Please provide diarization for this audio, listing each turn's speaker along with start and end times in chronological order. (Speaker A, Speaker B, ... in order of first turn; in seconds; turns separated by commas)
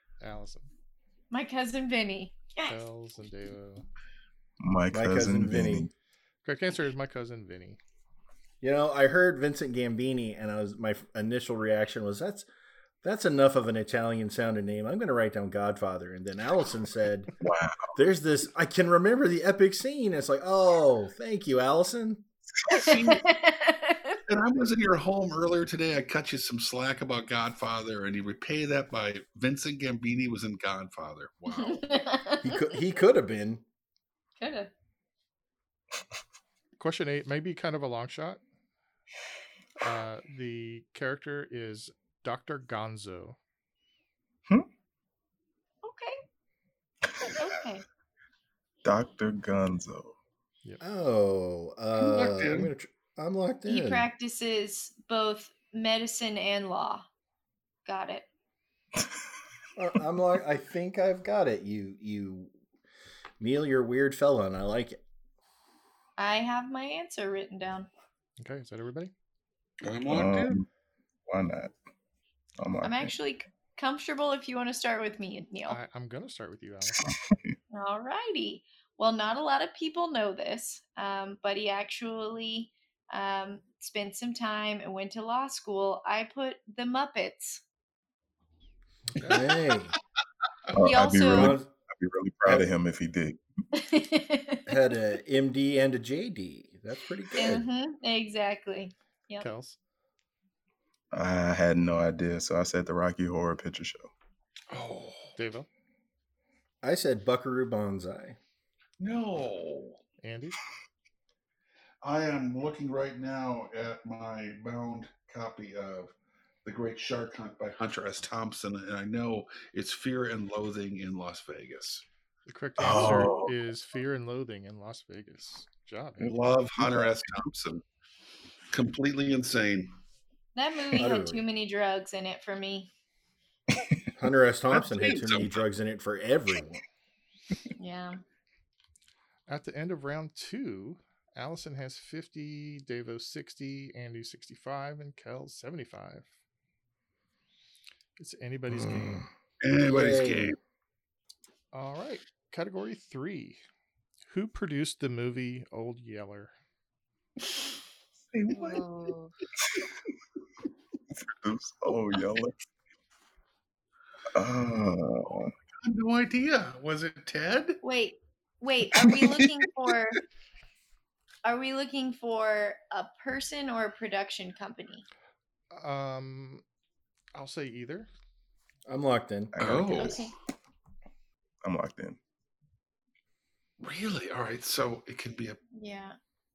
Speaker A: 0.2-0.7, Speaker B: 1.3-2.8, Speaker A: 2.7-3.8, Speaker C: 4.6-5.9, Speaker D: 4.9-5.9, Speaker A: 6.4-7.8, Speaker D: 8.6-12.5, Speaker D: 13.0-17.3, Speaker C: 17.4-17.9, Speaker D: 17.9-22.2, Speaker E: 22.7-23.3, Speaker B: 22.7-24.2, Speaker E: 24.3-31.9, Speaker B: 31.5-32.8, Speaker D: 32.4-33.6, Speaker B: 34.4-34.7, Speaker A: 36.8-38.4, Speaker A: 39.8-43.4, Speaker B: 45.8-46.2, Speaker B: 47.4-47.8, Speaker C: 48.8-50.1, Speaker D: 50.8-54.1, Speaker E: 52.0-52.7, Speaker B: 53.6-57.0, Speaker B: 57.9-58.3, Speaker D: 59.8-62.5, Speaker D: 63.4-65.0, Speaker B: 66.2-67.9, Speaker A: 68.4-69.1, Speaker E: 69.8-70.6, Speaker C: 70.1-70.7, Speaker C: 71.3-71.7, Speaker C: 72.6-73.1, Speaker B: 72.8-75.8, Speaker A: 75.7-77.1, Speaker C: 76.9-77.5, Speaker B: 77.7-87.6, Speaker A: 89.1-89.4, Speaker D: 89.3-90.0, Speaker C: 90.7-93.4, Speaker B: 90.8-91.6, Speaker D: 91.3-91.7, Speaker B: 93.7-94.8, Speaker D: 94.7-97.6, Speaker B: 97.3-99.5, Speaker A: 99.4-99.8, Speaker C: 101.1-104.1, Speaker E: 104.7-105.3, Speaker A: 105.3-105.7, Speaker D: 106.8-108.4, Speaker E: 109.0-110.0, Speaker A: 110.2-110.6, Speaker E: 112.0-116.1, Speaker E: 116.6-122.0, Speaker A: 122.5-126.3, Speaker C: 122.8-123.5, Speaker E: 122.9-123.4, Speaker E: 126.2-127.8, Speaker C: 126.8-127.1, Speaker E: 128.7-130.0, Speaker B: 130.6-132.9, Speaker D: 130.9-131.4, Speaker D: 134.2-136.8, Speaker E: 134.8-135.6, Speaker B: 137.8-138.2, Speaker A: 139.5-146.3, Speaker A: 148.2-149.2, Speaker D: 148.8-149.2, Speaker E: 149.6-150.6, Speaker D: 149.8-150.6, Speaker A: 151.7-153.6, Speaker A: 154.3-156.5, Speaker C: 158.3-158.8, Speaker B: 158.5-159.3, Speaker C: 161.2-162.6, Speaker C: 164.3-165.5, Speaker E: 165.8-167.8, Speaker B: 167.8-170.2, Speaker E: 168.9-169.5, Speaker B: 171.4-175.1, Speaker A: 175.7-176.6, Speaker A: 177.3-178.1, Speaker D: 178.8-179.6, Speaker C: 179.6-180.2, Speaker E: 179.6-180.3, Speaker B: 180.0-180.3, Speaker C: 181.6-182.2, Speaker E: 183.8-185.6, Speaker B: 185.7-186.2